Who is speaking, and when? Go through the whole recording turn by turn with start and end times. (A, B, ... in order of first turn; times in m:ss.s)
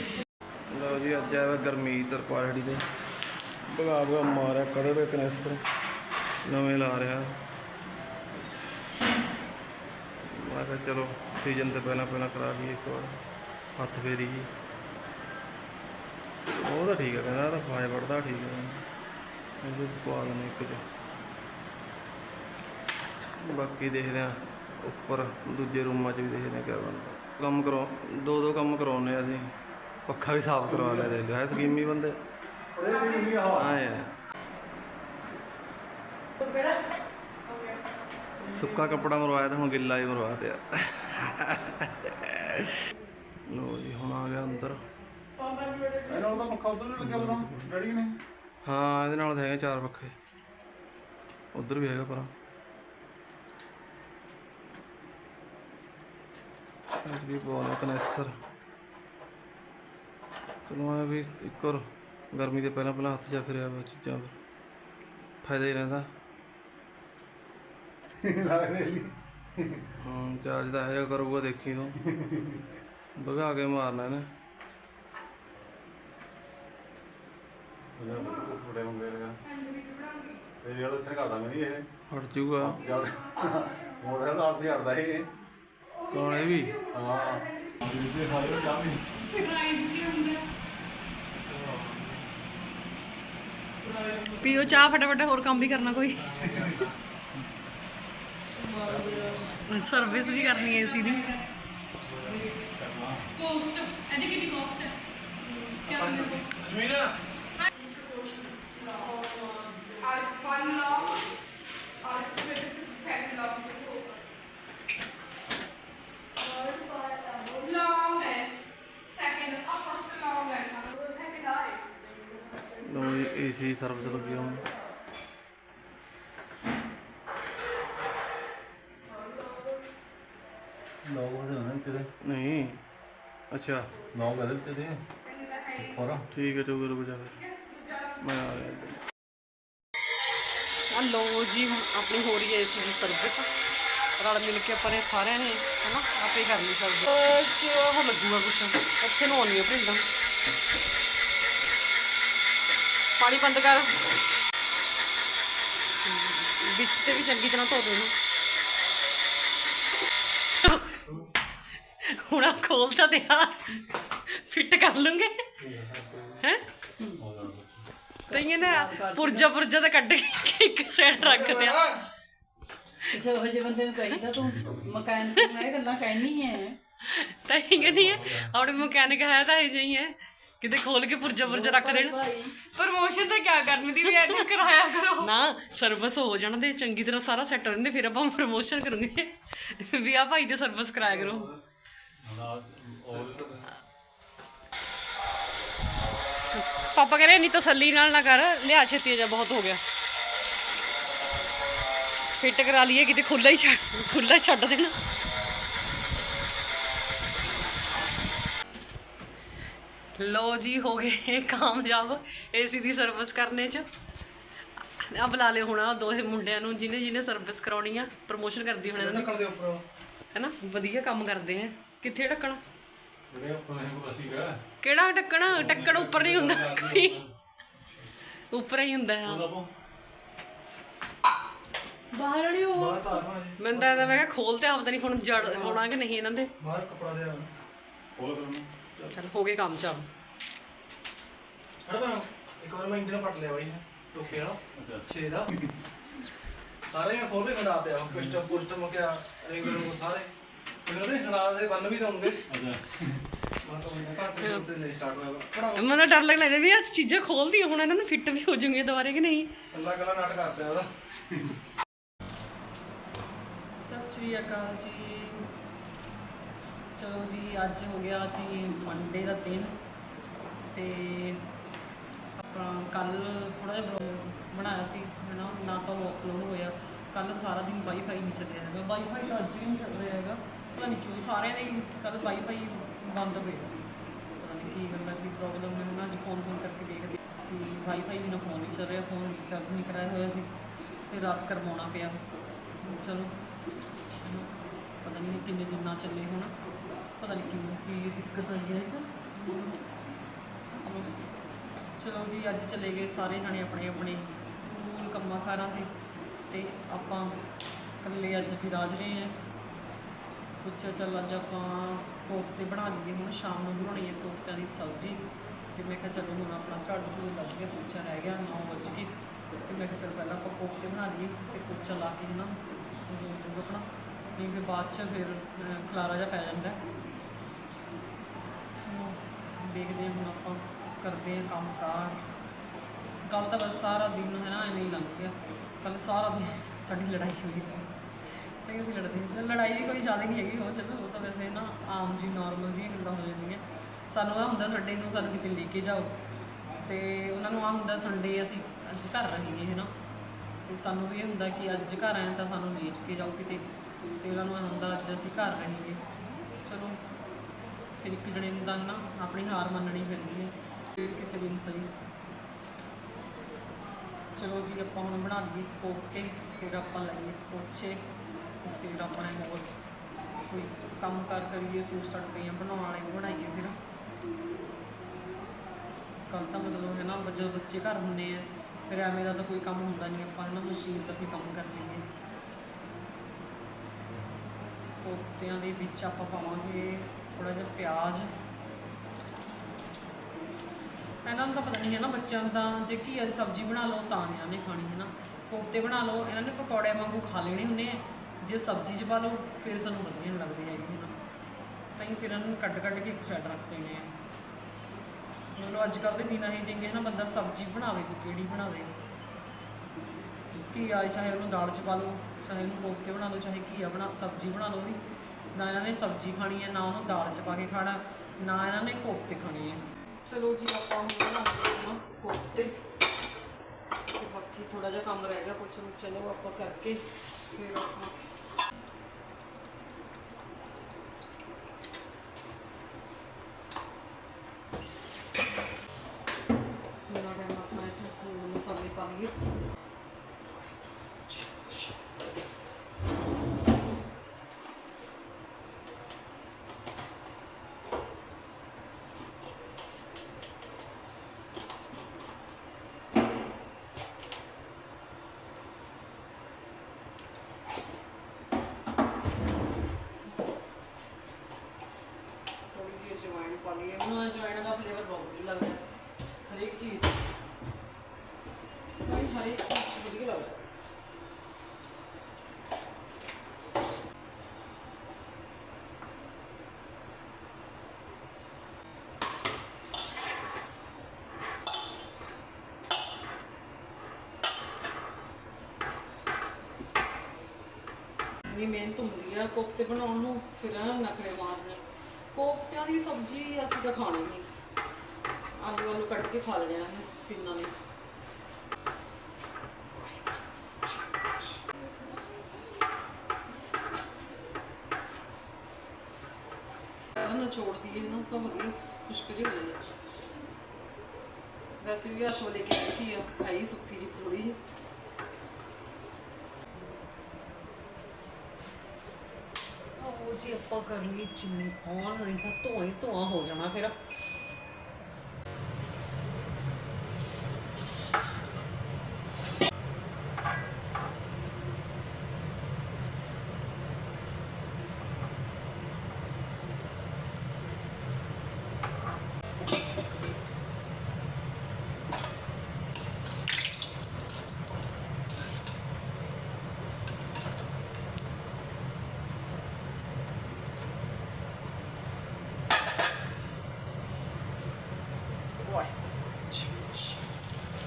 0:00.7-0:02.8 A
0:03.7-0:05.6 A
0:06.5-0:07.4 A
0:10.2-0:13.2 A
0:13.8-0:14.5 A
0:16.5-0:18.8 A
0:19.6-0:20.8 A
0:23.4-0:29.5 A
0:30.1-0:31.2 B
0:30.1-0:32.2 A
0:32.8-0:33.8 B
0:33.5-0:34.1 A
0:36.4-0:36.8 C
0:37.5-0:37.8 C
0:38.4-0:42.8 A
0:38.6-0:38.9 C
0:43.5-0:44.8 A
0:45.4-0:46.5 C
0:46.0-0:48.2 B
0:47.0-0:47.8 A
0:48.6-0:50.1 A
0:51.5-0:52.3 A
0:57.0-0:58.4 A
1:00.7-1:04.4 A
1:05.4-1:06.1 A
1:08.2-1:09.9 B
1:10.0-1:12.0 A
1:12.0-1:12.6 B
1:13.2-1:14.3 A
1:18.0-1:19.4 B
1:19.5-1:20.4 C
1:20.6-1:21.9 B
1:22.1-1:22.8 A
1:22.6-1:25.3 B
1:26.1-1:26.8 A
1:26.9-1:29.0 B
1:29.3-1:30.4 C
1:31.5-1:32.2 A
1:33.8-1:34.4 C
1:34.4-1:36.4 D
1:36.4-1:36.9 A
1:36.4-1:36.8 B
1:38.6-1:39.1 C
1:38.9-1:39.5 B
1:39.6-1:41.3 D
1:39.7-1:41.4 C
1:42.3-1:43.3 B
1:43.4-1:45.0 C
1:45.5-1:46.6 C
1:45.9-1:47.1 A
1:47.7-1:51.2 C
1:52.0-1:54.2 C
1:56.4-1:58.6 C
1:59.1-2:02.0 C
2:02.8-2:04.6 A
2:11.0-2:12.1 B
2:12.2-2:12.8 A
2:13.5-2:13.9 A
2:14.1-2:15.0 B
2:15.8-2:16.3 B
2:16.3-2:17.4 A
2:18.2-2:19.0 A
2:20.9-2:23.5 D
2:24.2-2:30.0 D
2:33.2-2:34.0 D
2:36.0-2:38.1 D
2:40.6-2:41.0 D
2:42.0-2:43.8 D
2:44.3-2:45.4 D
2:45.6-2:46.4 A
2:47.2-2:47.8 B
2:48.3-2:51.9 D
2:48.4-2:49.4 E
2:51.2-2:51.9 A
2:53.1-2:56.8 E
2:54.3-2:54.9 B
2:55.4-2:55.7 D
2:57.0-3:02.2 D
2:57.8-2:58.4 B
3:01.5-3:02.5 E
3:02.8-3:05.3 C
3:05.2-3:11.5 D
3:11.0-3:11.6 A
3:12.2-3:13.6 B
3:13.1-3:13.6 A
3:16.5-3:19.8 D
3:22.4-3:25.0 D
3:30.2-3:33.9 D
3:35.0-3:39.4 D
3:39.0-3:39.8 A
3:40.3-3:42.6 D
3:43.3-3:44.6 B
3:44.8-3:47.2 D
3:45.5-3:47.2 B
3:48.5-3:49.5 D
3:49.2-3:49.7 B
3:52.2-3:52.6 C
3:52.7-3:54.2 A
3:53.6-3:56.5 D
3:55.4-3:55.8 A
3:56.6-3:57.5 A
3:58.2-3:58.7 B
3:59.1-4:00.1 D
4:01.8-4:05.5 A
4:04.8-4:05.1 B
4:06.9-4:10.3 A
4:08.1-4:08.5 B
4:10.9-4:12.4 A
4:12.5-4:13.2 B
4:13.6-4:16.1 A
4:15.8-4:19.5 D
4:19.7-4:20.9 A
4:23.8-4:25.5 D
4:27.0-4:29.8 D
4:30.7-4:31.4 D
4:32.4-4:43.8 D
4:44.4-4:50.5 D
4:51.1-4:52.2 D
4:52.8-4:53.3 D
4:54.2-4:54.5 D
4:55.0-4:56.6 D
4:57.2-4:59.8 D
5:00.8-5:01.2 D
5:02.0-5:05.9 D
5:06.5-5:07.4 D
5:08.0-5:09.4 D
5:10.6-5:19.1 D
5:19.6-5:26.8 D
5:28.8-5:32.2 D
5:33.3-5:37.9 D
5:38.6-5:46.1 D
5:46.8-5:49.9 D
5:50.6-5:56.0 D
5:56.6-5:57.0 D
5:58.0-6:01.9 D
6:04.4-6:08.0 D
6:08.6-6:09.7 D
6:10.5-6:13.8 D
6:16.3-6:22.1 D
6:25.0-6:28.3 D
6:31.2-6:41.1 D
6:42.0-6:44.1 D
6:45.6-6:48.9 D
6:50.5-6:55.0 D
6:55.5-7:02.8 D
7:04.2-7:08.2 D
7:17.1-7:19.4 D
7:20.8-7:21.8 D
7:42.7-7:45.8 D
7:46.5-7:47.2 D
7:49.0-7:50.7 D
8:08.5-8:11.8 D
8:12.3-8:14.5 D
8:15.6-8:17.7 D
8:20.0-8:21.0 D
8:27.2-8:29.8 D
8:31.8-8:34.6 D
8:40.0-8:44.0 D
9:15.6-9:17.2 D